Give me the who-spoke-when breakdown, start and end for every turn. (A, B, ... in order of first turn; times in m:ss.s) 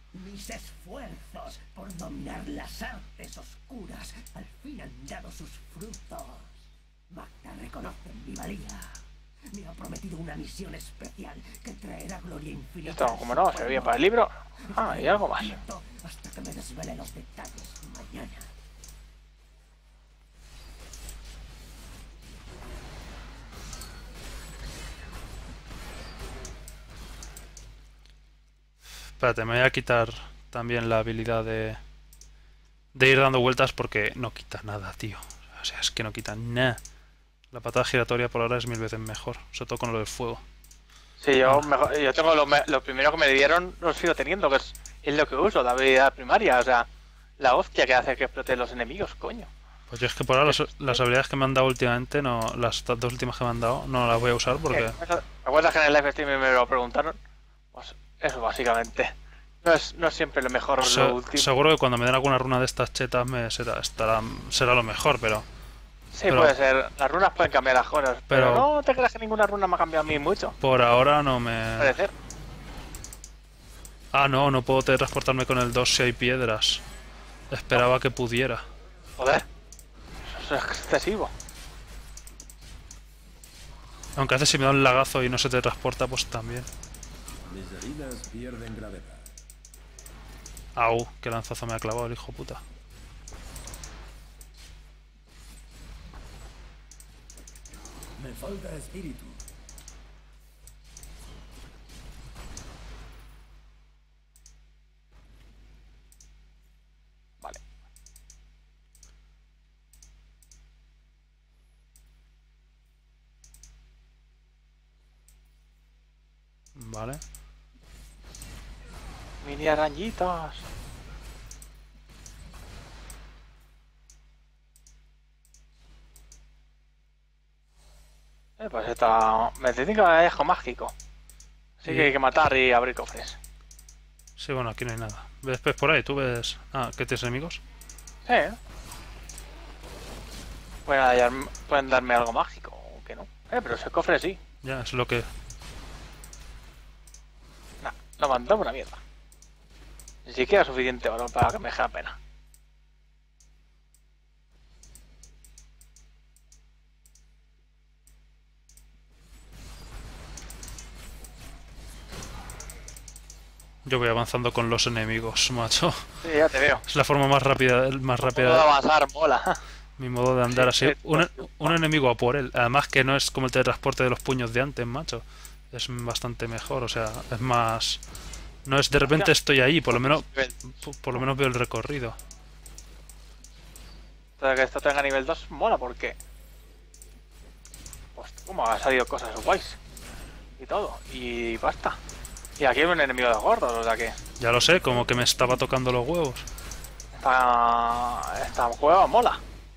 0:00.1-0:14.1 A
0:12.9-0:15.6 B
0:14.6-0:18.5 A
0:29.2-0:31.8 C
0:33.0-0:36.8 C
0:37.5-0:40.4 C
0:41.2-0:46.9 B
0:47.4-0:49.5 B
0:49.9-0:55.0 C
0:50.5-0:51.0 B
0:54.7-0:57.2 B
0:57.7-1:01.5 B
1:00.8-1:05.4 C
1:06.1-1:10.6 B
1:06.3-1:06.6 C
1:08.3-1:08.7 C
1:10.6-1:12.0 C
1:11.8-1:12.1 B
1:14.1-1:16.8 C
1:17.5-1:18.6 C
1:19.2-1:19.4 B
1:20.3-1:21.3 B
1:24.2-1:26.7 C
1:27.5-1:29.3 D
1:30.8-1:32.6 C
1:38.2-1:39.4 D
1:56.8-1:57.2 C
1:59.4-2:00.7 B
2:08.6-2:10.9 B
2:11.8-2:13.4 B
2:11.9-2:12.1 C
2:14.4-2:17.6 C
2:18.3-2:18.6 B
2:20.9-2:24.4 B
2:24.6-2:25.3 C
2:27.8-2:29.0 B
2:30.3-2:32.2 B
2:43.8-2:46.2 C
2:46.2-2:46.8 B
2:46.9-2:48.7 C
2:48.2-2:49.6 B
2:50.0-2:58.0 C
2:50.5-2:51.8 B
2:58.7-3:00.3 C
2:59.1-2:59.3 B
2:59.9-3:00.6 B
3:00.8-3:02.2 C
3:04.4-3:06.2 B
3:08.2-3:09.8 B
3:10.6-3:12.0 B
3:12.6-3:14.2 B
3:14.4-3:16.5 C
3:17.2-3:19.4 B